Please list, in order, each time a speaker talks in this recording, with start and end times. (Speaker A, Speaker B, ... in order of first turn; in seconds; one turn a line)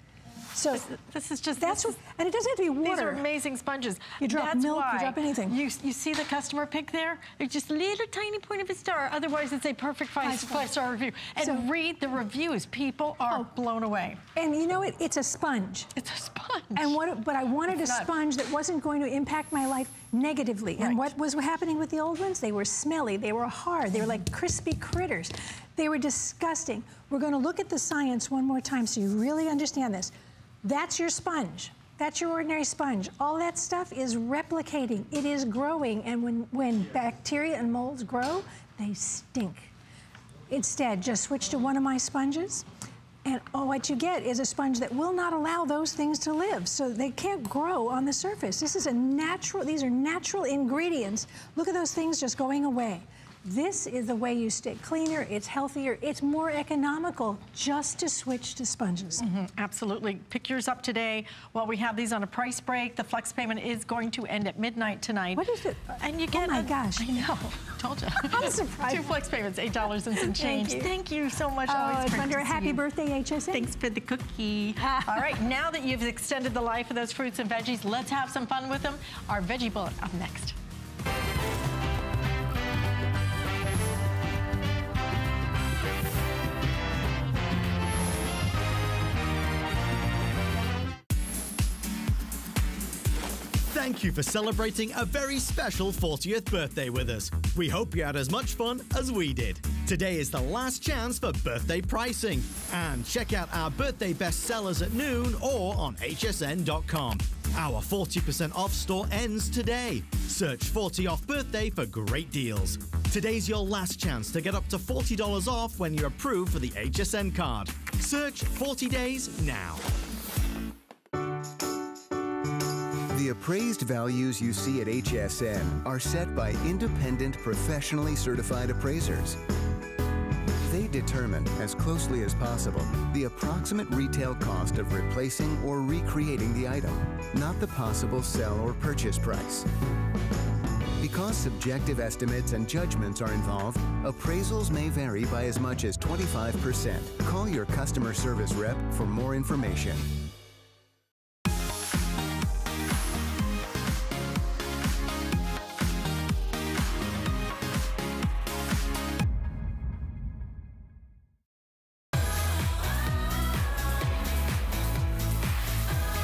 Speaker A: 0.5-0.9
Speaker B: 0.7-2.0
Speaker A: 1.6-3.2
Speaker B: 2.8-14.2
Speaker A: 4.2-5.6
Speaker A: 10.2-10.7
Speaker A: 14.3-15.9
Speaker B: 16.0-17.0
Speaker A: 16.8-30.1
Speaker B: 17.8-18.1
Speaker B: 20.8-21.1
Speaker A: 30.6-39.7
Speaker A: 40.5-42.6
Speaker A: 43.2-59.2
Speaker B: 59.2-65.4
Speaker A: 65.3-67.2
Speaker B: 66.0-72.8
Speaker A: 68.2-69.0
Speaker A: 70.2-70.9
Speaker A: 71.7-73.7
Speaker B: 73.5-80.6
Speaker A: 74.8-75.3
Speaker C: 93.7-119.8
Speaker D: 123.1-129.4
Speaker D: 130.6-139.7
Speaker D: 141.0-150.2